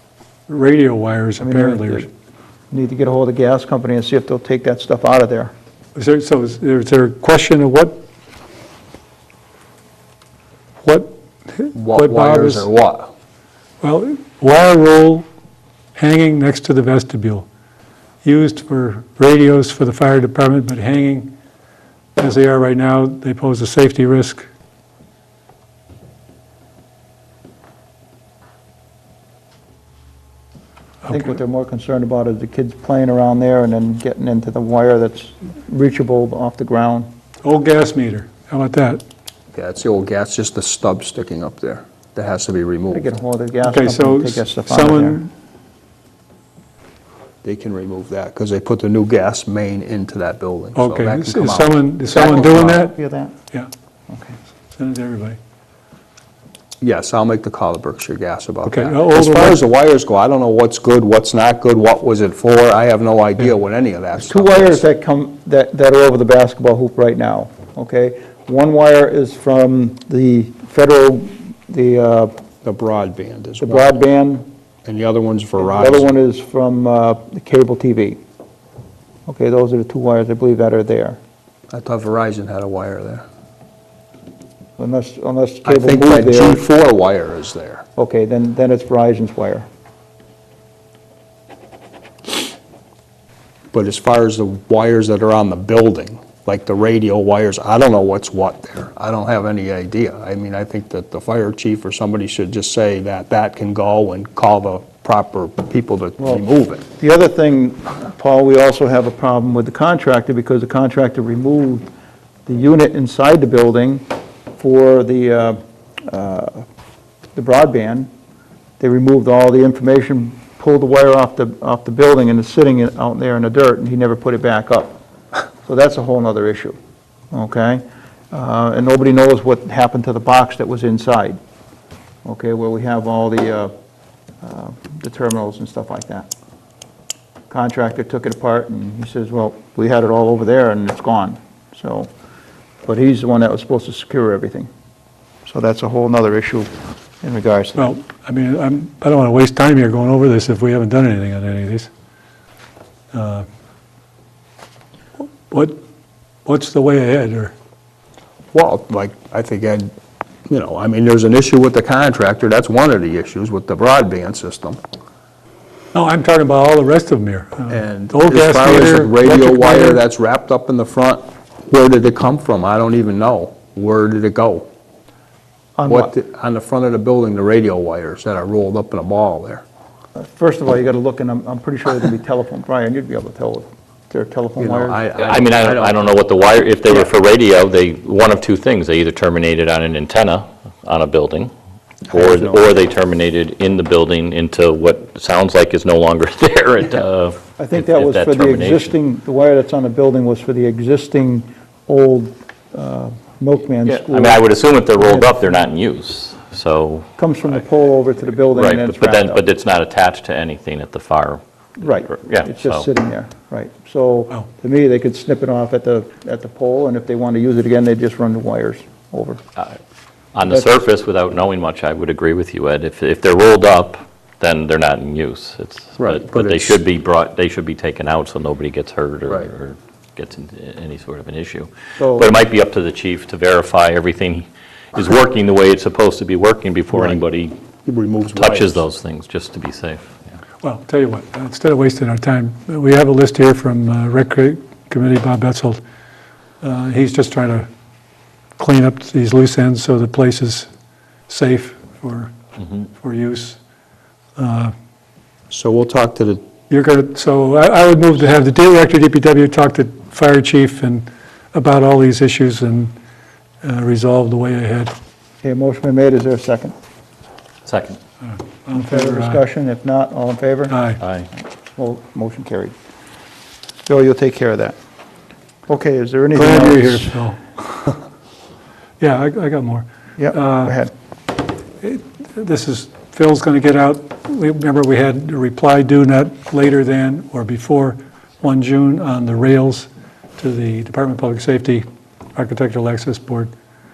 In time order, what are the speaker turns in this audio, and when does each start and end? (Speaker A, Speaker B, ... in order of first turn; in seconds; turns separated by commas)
Speaker A: 0.5-2.1, Speaker B: 1.4-2.1, Speaker B: 2.7-5.5, Speaker A: 6.0-8.0, Speaker A: 10.8-12.6, Speaker C: 11.8-13.1, Speaker A: 13.8-15.3, Speaker A: 16.0-17.5, Speaker A: 18.2-21.3, Speaker A: 22.2-24.5, Speaker A: 31.1-31.3, Speaker B: 31.1-37.1, Speaker A: 37.4-39.0, Speaker C: 39.5-43.1, Speaker B: 42.9-45.3, Speaker A: 43.6-45.3, Speaker C: 47.4-52.8, Speaker A: 50.8-53.0, Speaker B: 52.1-53.3, Speaker B: 54.1-54.4, Speaker A: 54.7-55.4, Speaker C: 56.8-64.8, Speaker A: 58.7-59.6, Speaker B: 64.3-72.3, Speaker C: 72.6-73.9, Speaker B: 73.6-74.5, Speaker C: 74.8-76.1, Speaker B: 75.6-78.2, Speaker B: 79.3-81.2, Speaker C: 81.7-83.2, Speaker B: 84.8-86.6, Speaker C: 85.7-87.8, Speaker B: 88.0-89.7, Speaker C: 93.7-106.8, Speaker B: 107.0-111.9, Speaker B: 112.5-114.0, Speaker B: 114.6-116.7, Speaker B: 117.3-118.1, Speaker B: 118.8-125.0, Speaker B: 125.7-126.8, Speaker B: 127.3-131.4, Speaker B: 132.2-133.7, Speaker B: 134.4-136.3, Speaker B: 137.5-142.1, Speaker B: 142.8-144.7, Speaker B: 145.5-146.7, Speaker B: 147.2-147.9, Speaker A: 147.8-151.9, Speaker A: 153.1-153.4, Speaker A: 155.5-155.8, Speaker A: 156.4-157.5, Speaker C: 158.5-159.9, Speaker C: 160.5-164.8, Speaker A: 165.9-170.0, Speaker C: 167.7-174.7, Speaker B: 175.8-176.1, Speaker C: 175.9-179.6, Speaker B: 180.2-185.0, Speaker C: 184.6-186.1, Speaker D: 185.2-191.5, Speaker D: 192.1-198.9, Speaker C: 192.1-192.7, Speaker B: 197.6-204.4, Speaker D: 203.8-207.1, Speaker B: 205.0-205.6, Speaker B: 207.2-209.4, Speaker D: 208.5-212.9, Speaker B: 211.8-219.4, Speaker D: 220.3-237.6, Speaker B: 220.4-220.7, Speaker C: 226.0-226.8, Speaker C: 229.3-229.5, Speaker B: 232.0-232.3, Speaker C: 236.9-237.2, Speaker C: 237.8-238.8, Speaker D: 238.4-240.2, Speaker A: 240.6-245.8, Speaker A: 246.6-247.7, Speaker A: 248.6-250.7, Speaker A: 251.3-252.3, Speaker A: 252.9-253.6, Speaker A: 254.4-254.7, Speaker C: 255.5-256.4, Speaker A: 256.7-263.0, Speaker A: 263.6-264.9, Speaker B: 265.4-266.8, Speaker D: 267.7-268.0, Speaker A: 268.2-269.4, Speaker B: 268.7-270.8, Speaker A: 270.7-271.0, Speaker D: 271.0-271.3, Speaker B: 271.8-272.7, Speaker B: 273.9-274.8, Speaker B: 275.7-277.1, Speaker A: 276.4-277.9, Speaker A: 279.0-280.8, Speaker B: 280.2-280.9, Speaker A: 281.8-293.5